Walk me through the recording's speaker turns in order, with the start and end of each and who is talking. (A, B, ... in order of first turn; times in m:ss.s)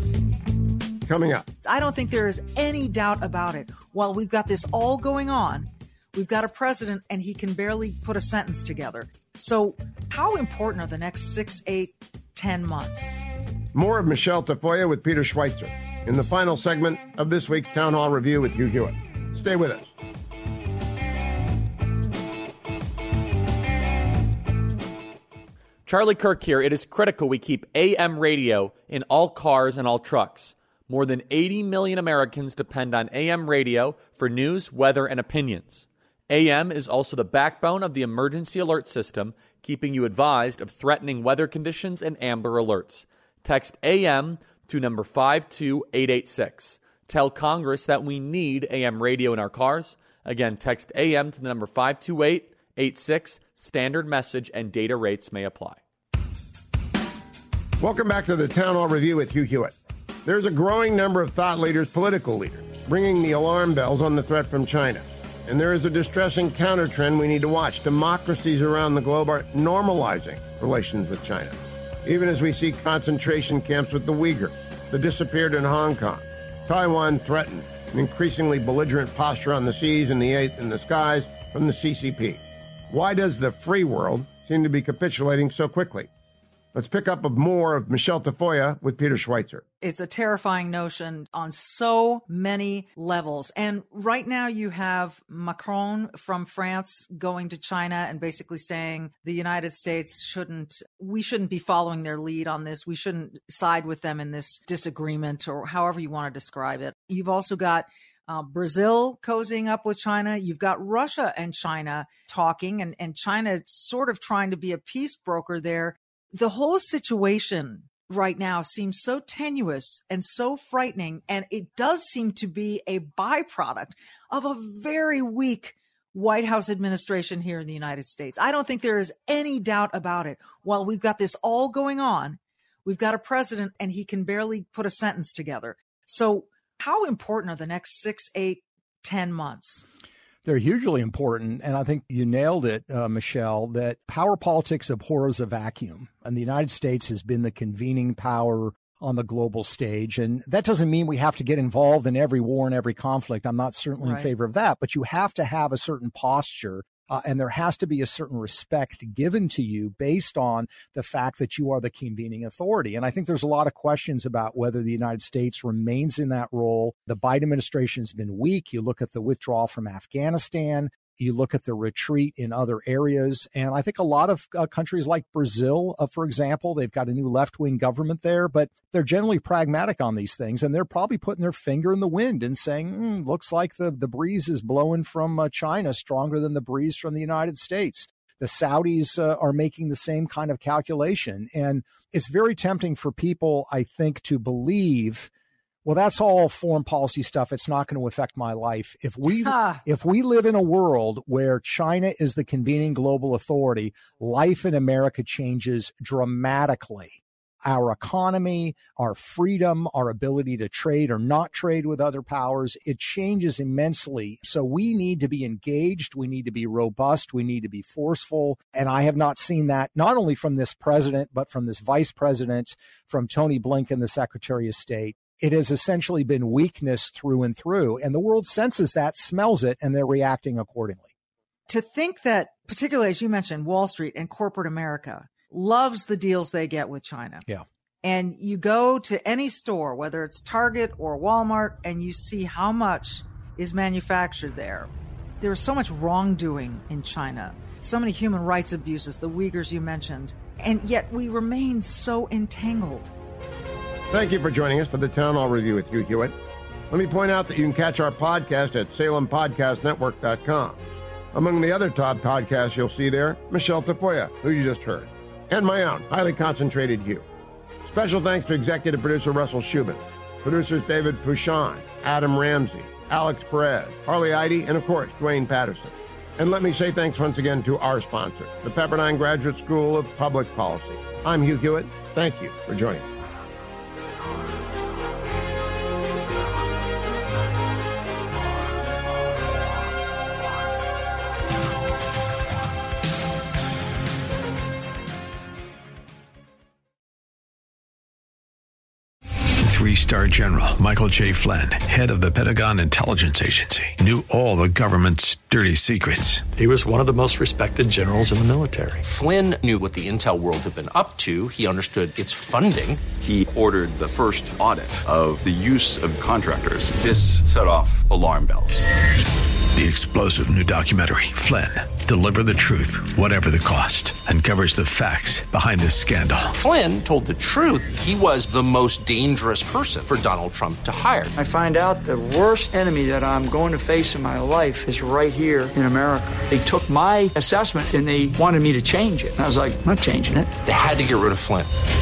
0:01.0-0:01.5 A
0:01.6-0:13.2 B
0:13.7-0:19.9 A
0:25.8-0:55.8 C
0:57.8-1:26.1 A
1:26.7-1:29.6 A
1:29.8-2:19.8 B
2:20.4-3:15.3 D
2:34.0-2:34.3 B
3:15.8-3:51.1 D
3:19.3-3:19.8 B
3:51.7-3:57.4 B
3:58.0-4:04.9 B
4:05.4-4:13.1 B
4:14.1-4:16.3 A
4:16.9-4:20.8 A
4:21.3-4:27.2 A
4:27.8-4:43.0 A
4:59.6-5:06.4 E
5:06.6-5:09.0 F
5:09.0-5:13.1 G
5:13.1-5:18.8 H
5:19.7-5:26.5 E
5:26.5-5:31.3 G
5:31.3-5:40.5 I
5:40.6-5:41.7 G